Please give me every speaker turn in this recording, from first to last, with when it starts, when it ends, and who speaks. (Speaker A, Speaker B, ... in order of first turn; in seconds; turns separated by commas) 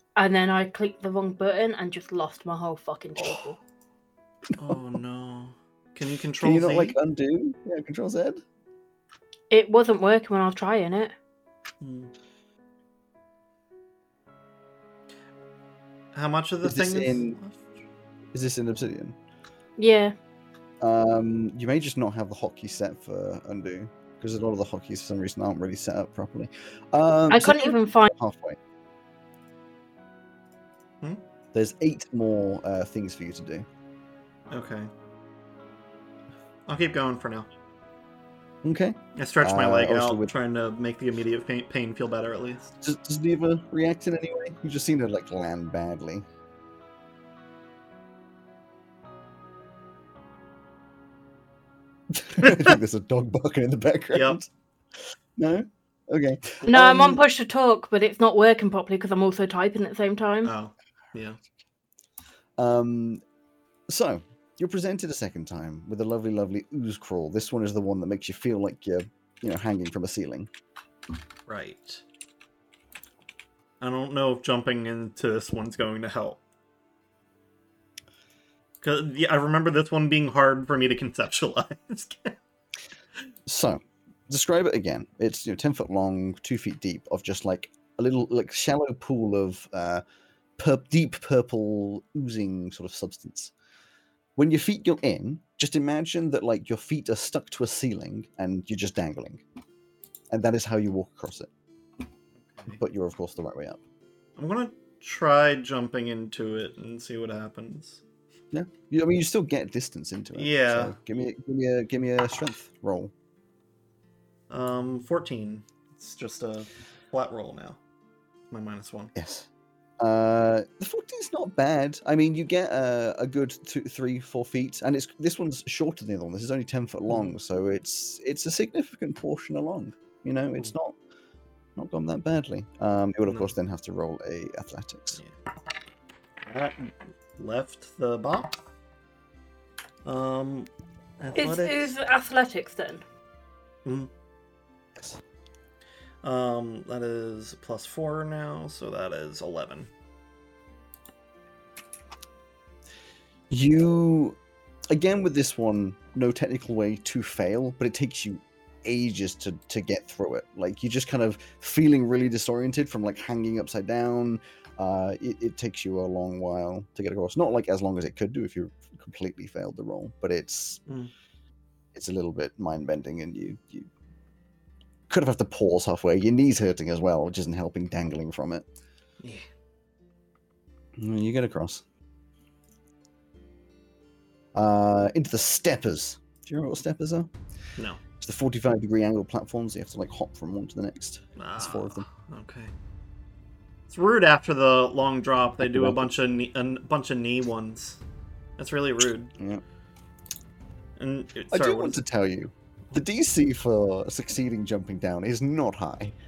Speaker A: 0.1-3.6, Speaker B: 4.5-7.0, Speaker C: 6.4-8.4, Speaker A: 9.5-11.1, Speaker B: 11.8-12.1, Speaker B: 16.1-17.6, Speaker C: 16.6-17.4, Speaker C: 18.3-19.1, Speaker A: 19.8-20.1, Speaker C: 20.8-28.6, Speaker A: 27.3-28.1, Speaker C: 31.5-33.7, Speaker B: 34.5-34.9, Speaker B: 36.7-37.5, Speaker C: 38.6-40.3, Speaker B: 39.1-42.7, Speaker C: 42.8-46.2, Speaker C: 52.1-54.5, Speaker B: 54.1-54.4, Speaker C: 55.4-57.2, Speaker A: 56.7-60.5, Speaker B: 60.4-61.4, Speaker C: 62.6-63.2, Speaker C: 63.9-70.5, Speaker B: 71.5-72.0, Speaker B: 73.8-76.4, Speaker B: 78.8-82.4, Speaker C: 83.5-90.0, Speaker C: 90.6-93.5, Speaker C: 94.3-99.4, Speaker C: 100.3-101.5, Speaker B: 102.5-102.8, Speaker C: 102.7-103.8, Speaker B: 104.4-108.0, Speaker C: 108.5-113.1, Speaker B: 110.3-110.9, Speaker B: 114.5-117.8, Speaker B: 118.5-119.1, Speaker C: 119.1-119.5, Speaker C: 120.0-130.9, Speaker C: 131.8-135.2, Speaker B: 133.2-133.5, Speaker B: 136.4-138.6, Speaker B: 140.0-141.9, Speaker A: 141.3-143.0, Speaker B: 143.8-144.1, Speaker C: 144.9-145.2, Speaker B: 146.2-149.9, Speaker C: 153.5-154.4, Speaker C: 154.9-170.8, Speaker C: 171.9-173.9, Speaker C: 175.1-178.7, Speaker C: 181.0-181.8, Speaker C: 184.5-187.3, Speaker C: 188.2-192.0, Speaker B: 191.4-192.7, Speaker B: 193.9-198.0, Speaker C: 195.6-196.1, Speaker B: 198.6-199.3, Speaker C: 199.4-199.6, Speaker B: 201.0-202.0, Speaker C: 201.5-206.2